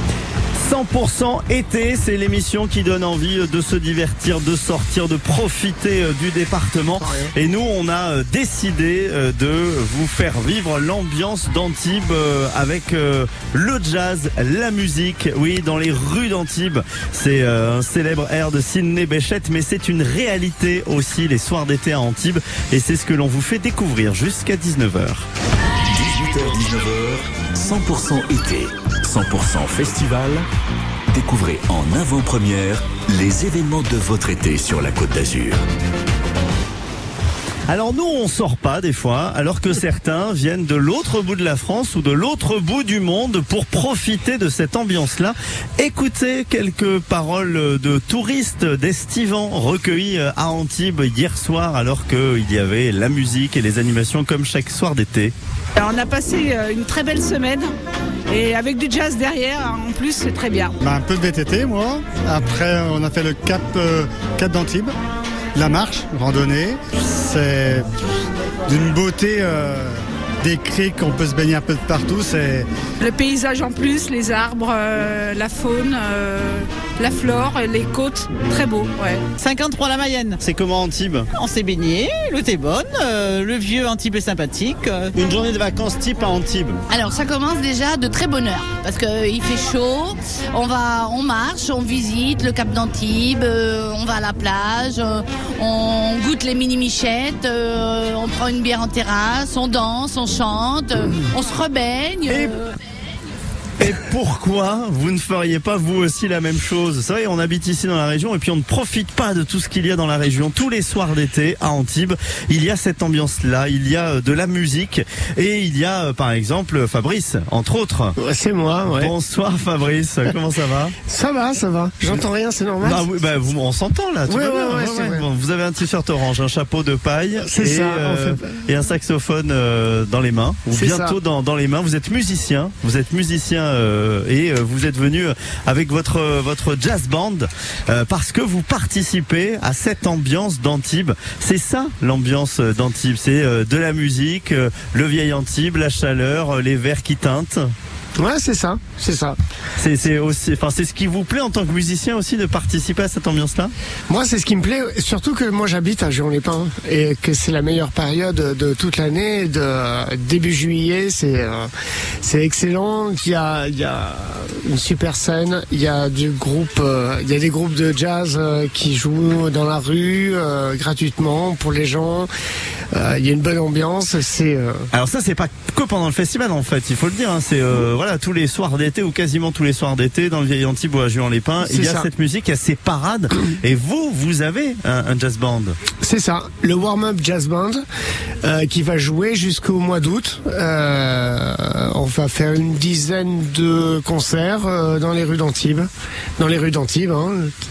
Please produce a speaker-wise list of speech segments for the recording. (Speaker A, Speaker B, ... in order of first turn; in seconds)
Speaker A: 0.6-25.3, 37.7-55.3, 80.4-81.3, 85.2-86.8, 103.8-118.2, 118.9-120.9, 122.8-147.7, 149.8-153.7, 174.9-185.8
Speaker B: 7.0-7.3, 118.2-119.1, 121.1-123.1, 124.3-125.2, 127.4-128.6, 130.7-131.2, 148.2-149.4, 154.1-161.7, 162.2-172.3, 172.9-174.9, 181.6-182.1, 186.0-187.8, 188.4-197.6
Speaker C: 25.9-30.5, 31.1-35.6
Speaker D: 55.8-57.7, 58.3-60.8, 73.0-79.3
Speaker E: 60.8-64.9, 65.5-67.9, 68.7-72.7
Speaker F: 79.4-80.3, 81.4-85.1
Speaker G: 86.9-102.7